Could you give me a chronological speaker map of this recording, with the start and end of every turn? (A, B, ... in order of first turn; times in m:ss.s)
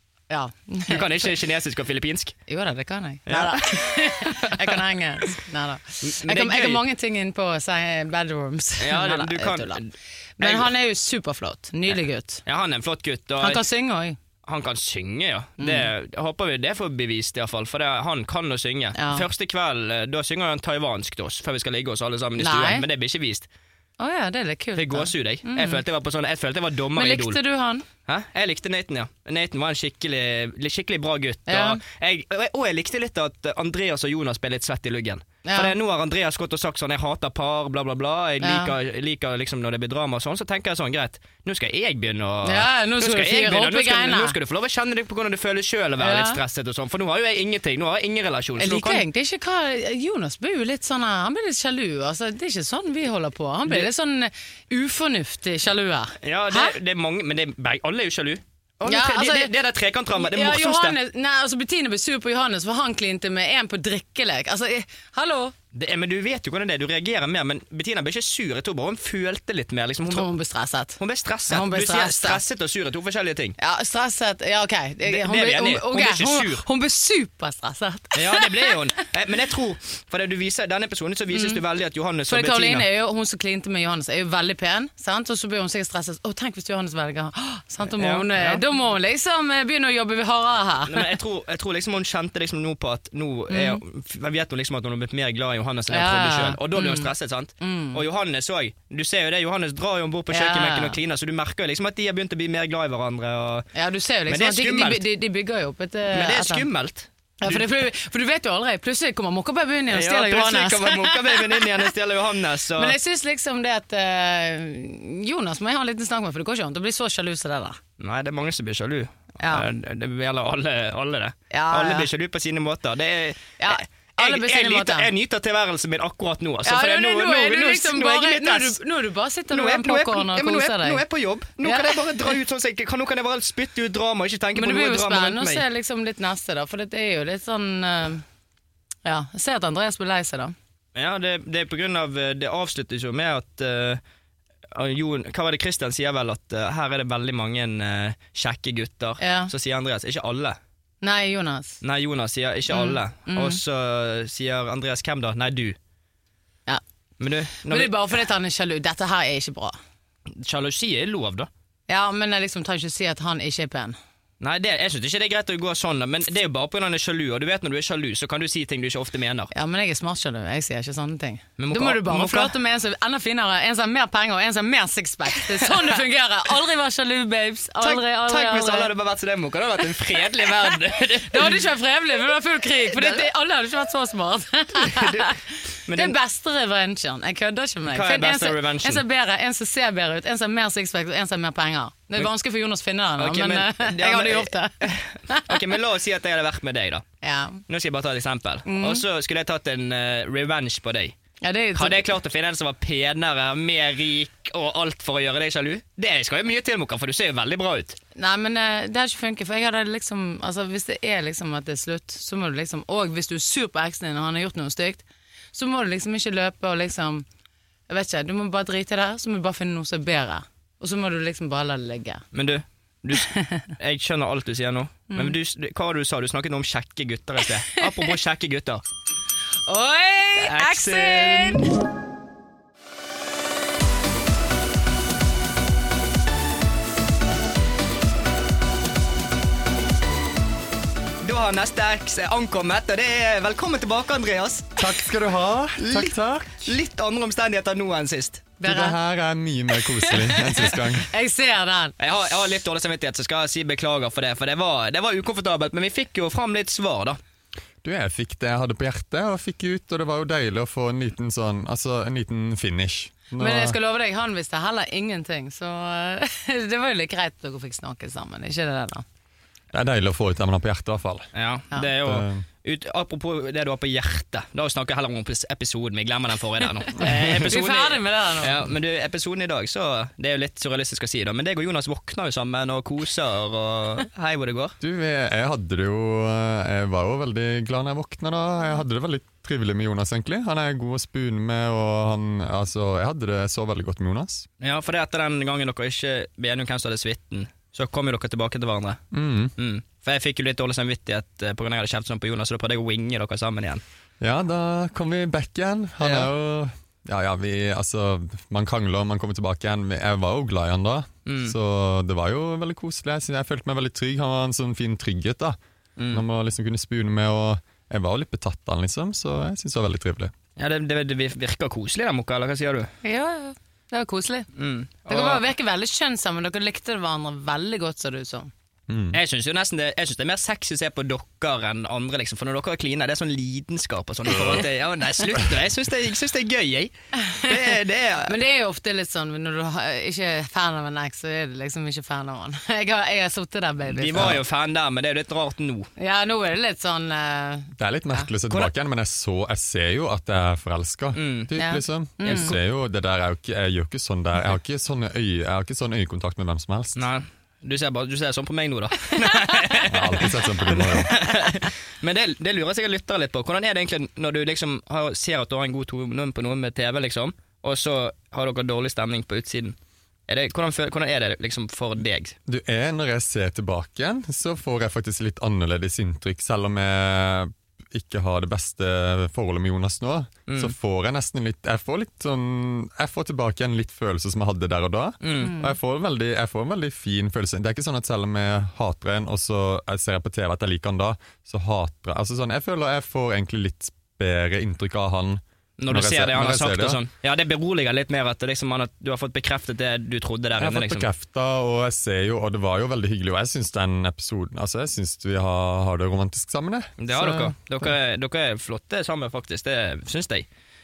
0:00.3-0:01.3 A
0:00.9-0:02.4 B
0:02.5-0:09.8 A
0:03.3-0:05.3 B
0:06.0-0:06.8 B
0:08.8-0:10.7 B
0:10.4-0:12.4 A
0:12.4-0:13.6 B
0:13.4-0:14.2 A
0:14.4-0:23.5 B
0:15.6-0:15.9 A
0:18.9-0:19.2 A
0:22.4-0:22.8 A
0:24.0-0:25.8 A
0:24.8-0:27.4 B
0:26.9-0:27.9 A
0:28.1-0:49.0 B
0:31.5-0:31.8 A
0:35.4-0:35.7 A
0:38.4-0:38.7 A
0:42.4-0:44.4 A
0:46.0-0:46.4 A
0:48.6-0:56.7 A
0:56.2-1:01.0 B
0:58.8-0:59.5 A
1:00.1-1:05.5 A
1:05.7-1:10.3 B
1:10.0-1:12.4 A
1:11.0-1:13.6 B
1:13.6-1:18.8 A
1:15.0-1:16.6 B
1:18.1-1:22.8 B
1:21.3-1:21.6 A
1:22.3-1:31.1 A
1:27.9-1:28.6 B
1:30.9-1:43.7 B
1:33.5-1:33.8 A
1:35.9-1:38.0 A
1:40.3-1:41.0 A
1:43.7-1:46.6 A
1:44.3-1:45.0 B
1:46.1-1:47.7 B
1:47.4-1:51.9 A
1:49.9-1:53.0 B
1:52.8-1:57.8 A
1:58.0-2:08.8 B
1:59.4-1:59.6 A
2:01.5-2:02.1 A
2:03.6-2:05.1 A
2:06.6-2:11.0 A
2:09.5-2:15.6 B
2:11.6-2:12.3 A
2:14.6-2:18.2 A
2:19.0-2:20.5 A
2:20.9-2:24.0 B
2:24.7-2:30.6 B
2:29.2-2:29.5 A
2:31.0-2:31.8 A
2:31.8-2:35.8 B
2:32.7-2:33.6 A
2:37.2-2:37.9 B
2:37.6-2:39.8 A
2:40.4-2:41.5 B
2:41.9-2:44.0 A
2:44.4-2:49.5 B
2:49.5-2:58.9 A
2:51.6-2:52.5 B
2:57.8-3:01.6 B
3:01.3-3:05.4 A
3:02.9-3:03.2 B
3:04.8-3:05.3 B
3:05.8-3:06.1 B
3:05.9-3:15.6 A
3:07.9-3:09.0 B
3:13.2-3:17.0 B
3:17.2-3:17.6 A
3:17.7-3:21.1 B
3:18.6-3:19.0 A
3:21.4-3:22.1 A
3:21.7-3:28.0 B
3:28.1-3:37.2 A
3:37.9-3:42.2 A
3:42.3-3:48.8 B
3:43.1-3:43.7 A
3:45.1-3:45.4 A
3:47.8-3:48.1 A
3:49.7-3:51.7 A
3:50.4-3:51.7 B
4:01.2-4:04.9 B
4:04.8-4:06.7 C
4:05.8-4:08.5 B
4:08.6-4:09.0 A
4:08.6-4:11.1 C
4:09.9-4:11.9 A
4:12.0-4:17.2 B
4:17.8-4:23.8 C
4:23.4-4:29.0 A
4:29.7-4:31.3 C
4:31.3-4:44.8 B
4:32.0-4:32.4 C
4:37.0-4:38.6 A
4:44.8-4:54.4 C
4:54.6-4:59.0 B
4:59.1-4:59.5 C
4:59.6-5:03.8 B
5:04.2-5:15.6 C
5:06.0-5:06.3 B
5:11.2-5:11.5 B
5:16.0-5:16.2 B
5:16.1-5:20.3 C
5:20.6-5:22.9 B
5:23.0-5:24.5 A
5:24.6-5:25.4 B
5:25.1-5:28.5 A
5:28.9-5:29.2 C
5:29.1-5:36.9 B
5:37.2-5:37.7 A
5:37.4-5:38.3 B
5:38.2-5:44.4 A
5:43.9-5:45.9 B
5:46.0-5:48.3 A
5:47.8-5:57.0 C
5:51.1-5:51.5 B
5:51.5-5:52.5 A
5:57.0-6:09.8 B
5:59.9-6:01.2 C
6:10.3-6:12.3 B
6:12.5-6:37.0 C
6:20.5-6:20.7 B
6:25.2-6:25.6 B
6:25.4-6:25.7 A
6:35.8-6:41.1 B
6:40.6-6:47.9 C
6:47.0-6:50.5 B